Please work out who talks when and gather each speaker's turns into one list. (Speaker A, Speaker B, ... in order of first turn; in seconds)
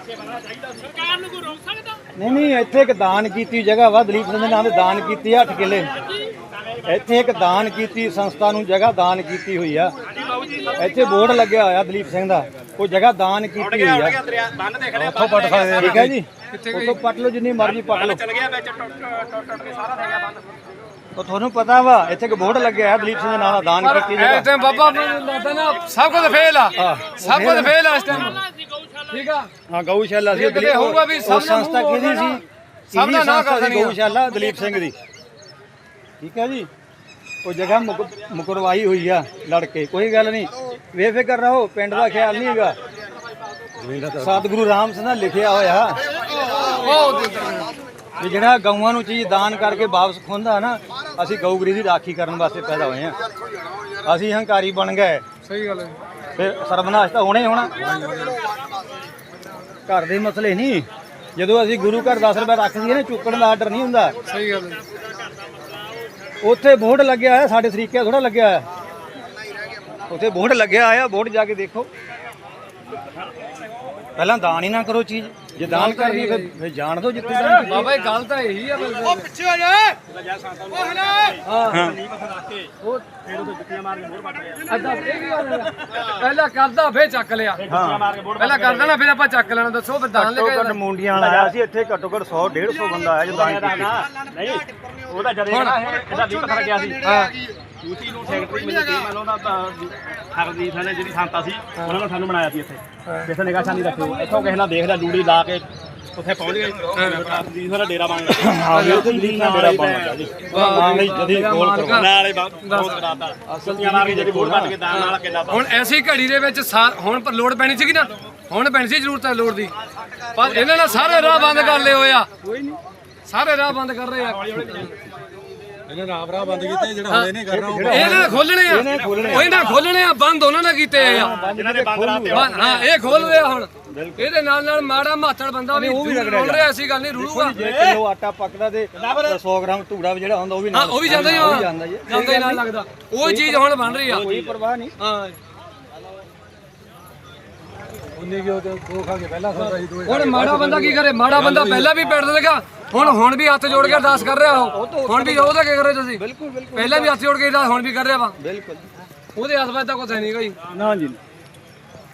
Speaker A: 0.1-1.6, 10.1-10.8, 13.6-16.1, 17.6-20.4, 80.0-85.0, 87.6-89.0, 91.1-91.5, 93.3-97.0, 97.8-110.6, 111.9-115.8, 120.4-122.7, 124.3-125.0, 128.9-129.9, 130.9-133.1, 137.6-138.0, 139.0-139.4, 143.9-144.6
Speaker B: 2.2-5.9, 6.8-9.9, 10.8-14.2, 15.8-18.2, 21.1-24.5, 26.8-28.3, 29.7-35.0, 36.2-36.7, 37.4-42.8, 44.1-46.1, 48.2-53.2, 54.0-55.2, 56.4-57.8, 59.9-64.1, 66.4-68.7, 70.1-71.9, 74.2-77.9, 81.7-82.0, 87.7-88.0, 90.1-94.0, 108.3-112.1, 113.5-114.8, 126.5-126.9, 127.4-129.5, 131.1-132.5, 133.1-134.3, 135.7-142.6, 143.2-145.0, 154.7-155.6, 156.1-157.1, 158.4-158.9, 160.7-161.2
Speaker C: 14.9-16.0, 43.8-44.4, 57.9-58.4, 125.9-128.5, 148.1-151.9
Speaker D: 15.9-17.0, 23.8-28.4, 29.1-29.5, 30.3-34.0, 46.5-47.7, 55.5-56.0, 64.3-64.8, 75.7-76.5, 77.2-80.0, 81.4-81.8, 84.7-87.6, 88.4-90.8, 95.5-95.9, 97.0-97.3, 107.0-107.4, 108.7-109.1, 110.5-113.0, 114.9-119.7, 120.3-122.3, 123.3-124.9, 127.1-131.3, 132.3-137.6, 140.7-144.3, 145.0-145.4, 150.0-156.2, 156.7-158.4, 159.3-160.6